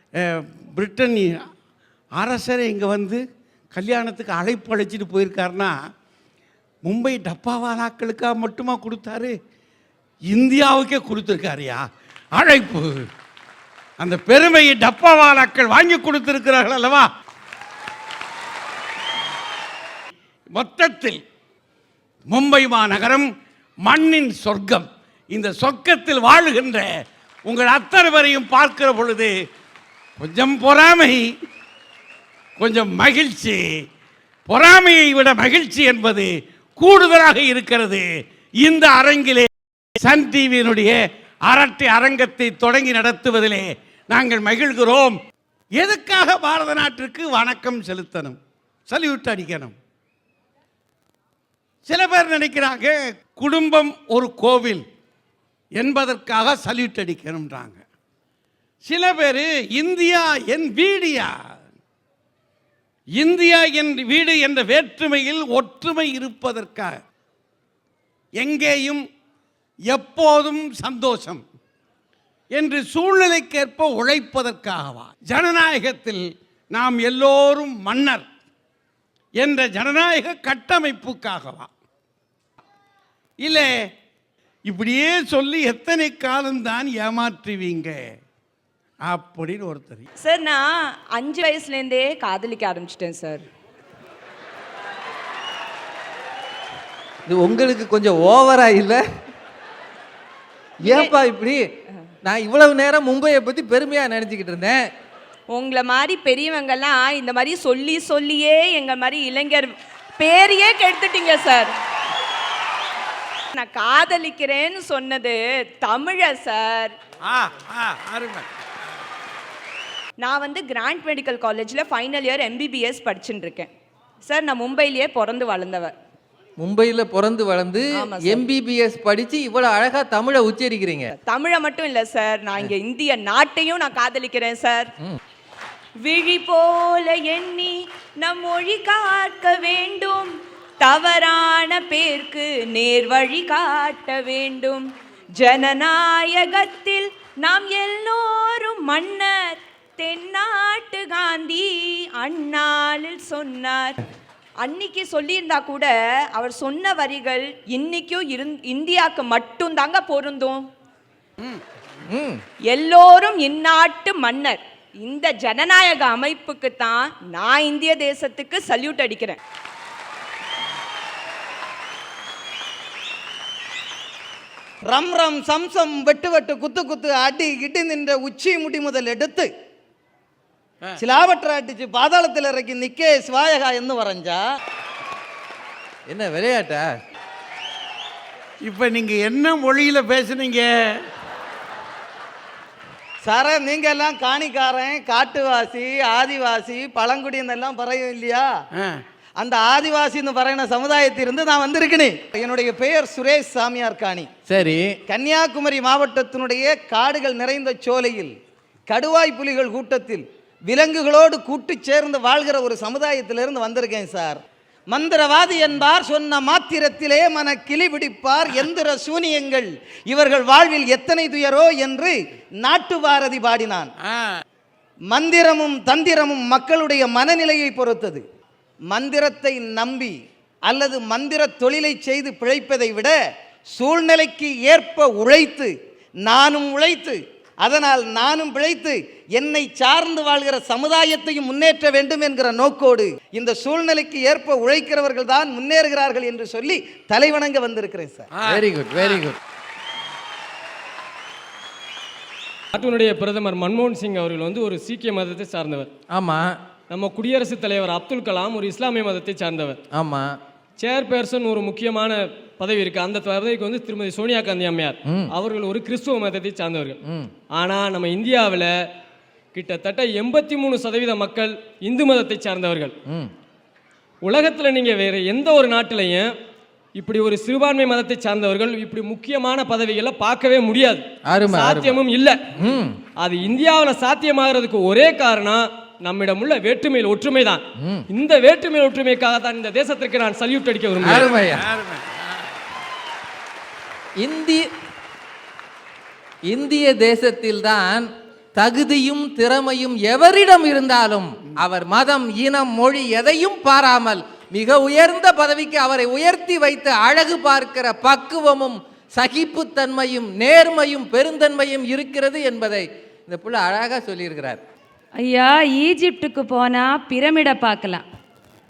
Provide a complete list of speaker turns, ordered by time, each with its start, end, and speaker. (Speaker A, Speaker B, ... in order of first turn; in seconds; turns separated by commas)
Speaker A: 0.2-1.3, Speaker A: 2.2-3.2, Speaker A: 3.7-5.8, Speaker A: 6.9-9.3, Speaker A: 10.3-11.8, Speaker A: 12.4-12.9, Speaker A: 14.0-17.1, Speaker A: 20.6-21.2, Speaker A: 22.3-23.3, Speaker A: 23.9-26.9, Speaker A: 27.5-29.3, Speaker A: 30.2-31.2, Speaker A: 32.6-33.6, Speaker A: 34.5-38.1, Speaker A: 38.6-45.2, Speaker A: 45.8-49.8, Speaker A: 51.9-54.8, Speaker A: 55.8-57.8, Speaker A: 58.9-61.3, Speaker A: 63.2-66.9, Speaker A: 68.4-69.0, Speaker A: 69.9-71.4, Speaker A: 72.5-78.2, Speaker A: 79.4-81.7, Speaker A: 83.4-83.7, Speaker A: 84.7-88.0, Speaker A: 89.1-90.0, Speaker B: 90.2-93.5, Speaker C: 97.3-99.0, Speaker C: 100.8-101.6, Speaker B: 100.8-101.2, Speaker C: 102.2-104.8, Speaker B: 105.5-111.7, Speaker B: 113.5-116.9, Speaker A: 117.2-118.5, Speaker B: 120.2-123.7, Speaker B: 124.2-125.9, Speaker C: 126.6-131.1, Speaker B: 127.9-128.5, Speaker B: 131.1-134.9, Speaker B: 136.0-154.0, Speaker B: 154.6-160.7, Speaker C: 162.1-162.4, Speaker B: 162.7-169.4, Speaker D: 174.8-179.5, Speaker D: 181.0-184.4, Speaker C: 186.1-186.9, Speaker A: 188.6-190.7, Speaker D: 193.2-198.5, Speaker D: 199.4-204.3, Speaker C: 204.5-204.9, Speaker D: 205.1-208.3, Speaker D: 208.9-223.9, Speaker D: 225.1-228.2, Speaker D: 228.9-233.2, Speaker D: 233.7-235.7, Speaker D: 236.2-248.3, Speaker A: 248.3-249.2, Speaker C: 248.5-249.4, Speaker E: 252.7-255.9, Speaker C: 256.1-256.5, Speaker E: 256.9-259.8, Speaker C: 259.9-260.4, Speaker E: 260.8-268.8, Speaker E: 269.5-272.9, Speaker E: 274.2-276.4, Speaker E: 276.9-282.6, Speaker C: 281.3-282.0, Speaker C: 282.6-282.9, Speaker E: 283.2-291.3, Speaker C: 291.1-291.6, Speaker A: 291.1-292.2, Speaker C: 294.2-294.7, Speaker C: 296.5-314.6, Speaker F: 315.2-318.0